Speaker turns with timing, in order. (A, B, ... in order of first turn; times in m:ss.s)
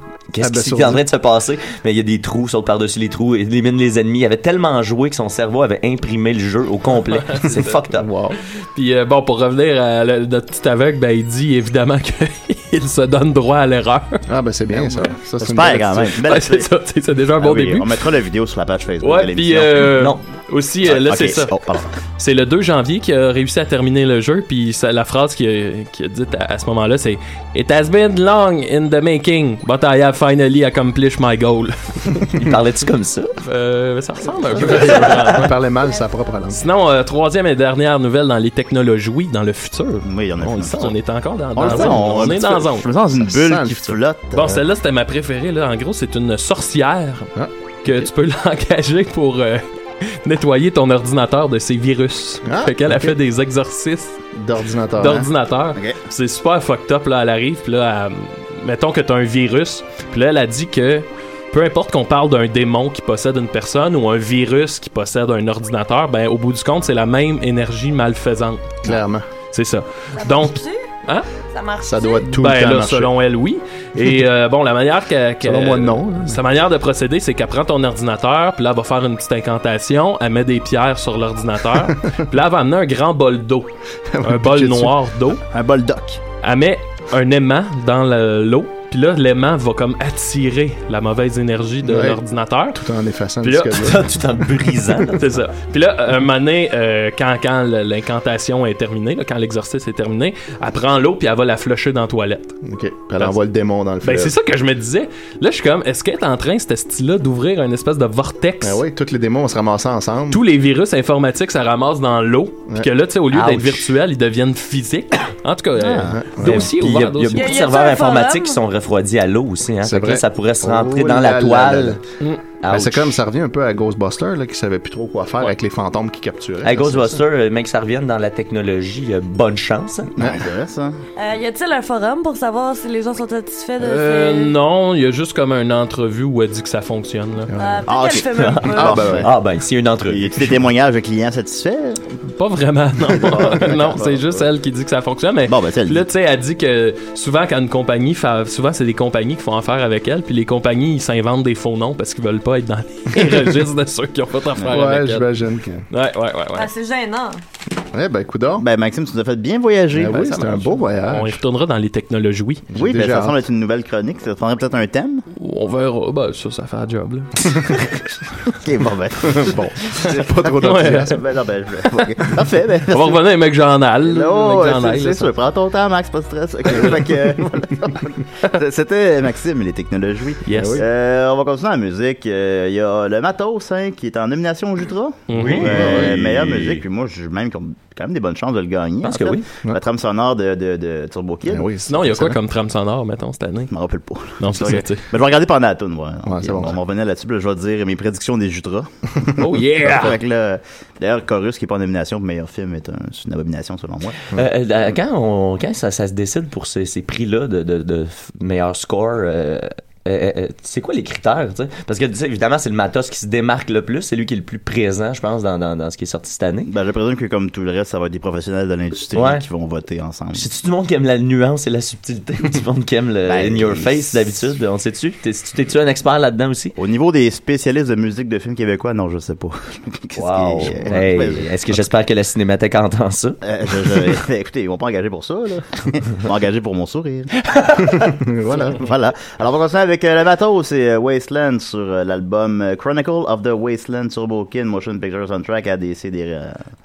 0:00.3-0:08.1 A
0:00.4-0:01.0 B
0:07.2-0:07.8 C
0:07.9-0:08.4 B
0:08.7-0:14.2 C
0:14.3-0:16.2 B
0:14.7-0:16.7 D
0:16.2-0:17.9 C
0:17.4-0:19.9 D
0:19.0-0:21.5 C
0:20.8-0:21.9 D
0:22.2-0:32.3 C
0:32.4-0:33.3 A
0:33.4-0:35.5 C
0:34.5-0:36.6 B
0:36.5-0:42.8 C
0:40.0-0:40.9 D
0:41.6-0:42.4 B
0:41.6-0:44.6 D
0:43.2-0:44.0 B
0:44.3-0:47.3 C
0:47.3-0:48.1 B
0:47.8-0:54.2 C
0:52.4-0:53.2 B
0:54.3-0:55.3 B
0:55.0-1:08.8 C
1:08.8-1:09.2 B
1:09.5-1:11.3 C
1:10.1-1:10.9 E
1:11.5-1:12.3 E
1:11.8-1:13.1 B
1:12.3-1:23.7 C
1:15.4-1:16.4 B
1:21.9-1:22.2 B
1:24.1-1:25.0 B
1:24.2-1:25.4 C
1:25.5-1:26.2 D
1:26.4-1:32.8 C
1:31.8-1:34.1 B
1:33.4-1:33.9 C
1:33.8-1:35.2 A
1:35.1-1:42.6 C
1:42.6-1:44.3 B
1:44.0-1:48.8 C
1:48.6-1:50.4 B
1:50.3-1:57.5 C
1:53.3-1:53.9 A
1:55.8-1:56.1 D
1:56.1-1:56.7 B
1:56.4-2:02.0 A
1:57.3-1:58.6 E
1:59.8-2:02.0 B
2:02.6-2:03.1 A
2:02.7-2:07.2 B
2:06.6-2:10.1 A
2:10.2-2:10.4 B
2:10.2-2:11.0 D
2:11.2-2:14.5 E
2:13.8-2:17.5 C
2:17.5-2:17.9 B
2:17.6-2:19.1 E
2:17.9-2:19.3 D
2:18.3-2:20.6 A
2:18.7-2:19.3 B
2:20.1-2:22.0 D
2:22.2-2:35.3 C
2:23.2-2:24.4 D
2:25.5-2:26.0 D
2:34.7-2:35.8 B
2:35.9-2:36.7 C
2:36.5-2:37.4 E
2:37.9-2:38.6 B
2:38.6-2:40.8 D
2:39.9-2:41.4 B
2:41.1-2:42.6 C
2:42.7-2:43.4 B
2:42.8-2:45.2 D
2:45.4-2:47.6 C
2:48.5-2:53.2 D
2:49.2-2:51.2 B
2:50.6-2:51.1 C
2:52.9-2:55.3 C
2:54.0-3:11.7 D
3:00.4-3:00.8 C
3:00.5-3:00.8 B
3:05.3-3:05.7 C
3:05.4-3:06.8 B
3:05.7-3:06.6 A
3:09.0-3:09.4 A
3:11.4-3:12.4 B
3:11.9-3:13.7 C
3:13.7-3:24.2 D
3:14.4-3:15.1 C
3:16.2-3:16.8 B
3:19.4-3:20.2 C
3:24.3-3:36.7 A
3:36.7-3:40.4 D
3:39.1-3:39.4 A
3:40.3-3:46.7 A
3:43.3-3:44.0 D
3:46.8-3:51.5 D
3:50.2-3:53.4 A
3:53.4-3:57.3 D
3:58.0-3:58.8 B
3:58.6-4:06.7 D